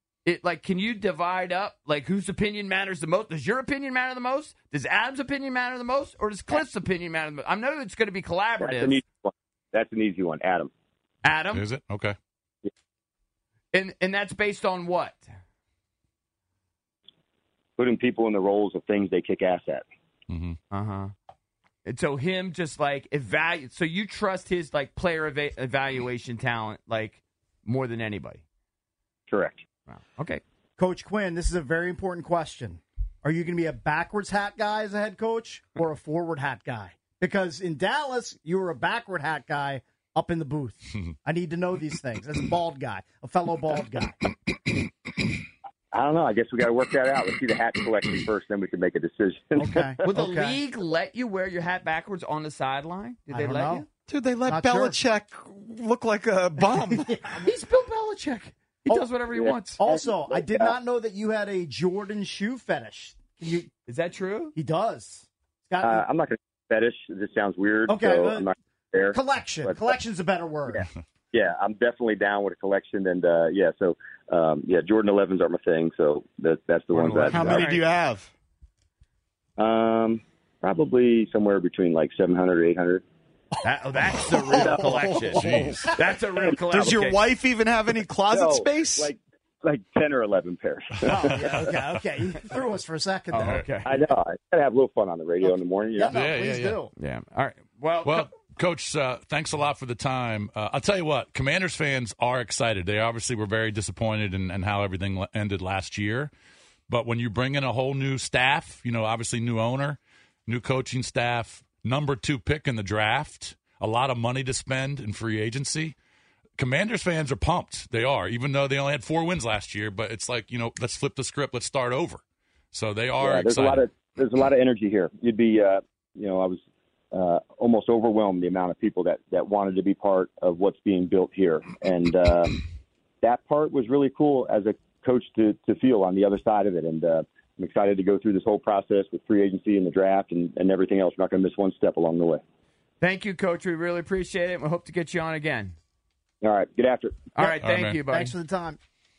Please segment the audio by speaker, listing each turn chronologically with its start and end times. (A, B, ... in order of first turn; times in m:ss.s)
0:00.3-0:09.0 A
0:08.6-0:10.7 B
0:11.2-0:11.6 A
0:11.5-0:12.2 C
0:13.7-0:15.3 A
0:17.8-0:19.8 B
0:20.3-0:20.6 C
0:20.7-0:21.1 A
0:21.8-0:28.4 A
0:29.3-0:29.6 B
0:29.9-0:30.4 A
0:30.8-0:44.2 D
0:45.9-0:50.0 B
0:49.6-0:50.6 D
0:50.1-0:53.9 A
0:53.3-0:53.8 D
0:54.1-0:57.1 E
0:54.5-0:55.0 D
0:57.0-0:57.4 D
0:57.2-0:59.8 A
0:59.3-1:00.7 B
0:59.8-1:03.7 D
1:03.9-1:04.5 A
1:04.6-1:06.0 D
1:05.8-1:09.9 B
1:07.9-1:08.5 D
1:09.1-1:10.9 D
1:10.7-1:17.6 B
1:17.0-1:17.9 A
1:17.1-1:18.3 E
1:19.6-1:23.0 B
1:23.6-1:27.2 A
1:24.5-1:25.3 B
1:24.6-1:25.3 E
1:25.3-1:25.9 C
1:26.7-1:29.1 E
1:28.3-1:31.7 B
1:31.1-1:33.7 D
1:33.3-1:33.9 A
1:33.4-1:33.7 C
1:33.8-1:36.1 B
1:35.4-1:36.9 D
1:36.1-1:36.8 C
1:37.0-1:38.3 A
1:38.0-1:46.3 C
1:46.9-1:56.0 C
1:56.6-2:03.9 C
2:03.2-2:12.6 B
2:13.2-2:22.4 B
2:23.0-2:25.8 A
2:26.4-2:27.3 B
2:27.4-2:28.3 A
2:27.4-2:28.8 D
2:27.6-2:28.0 C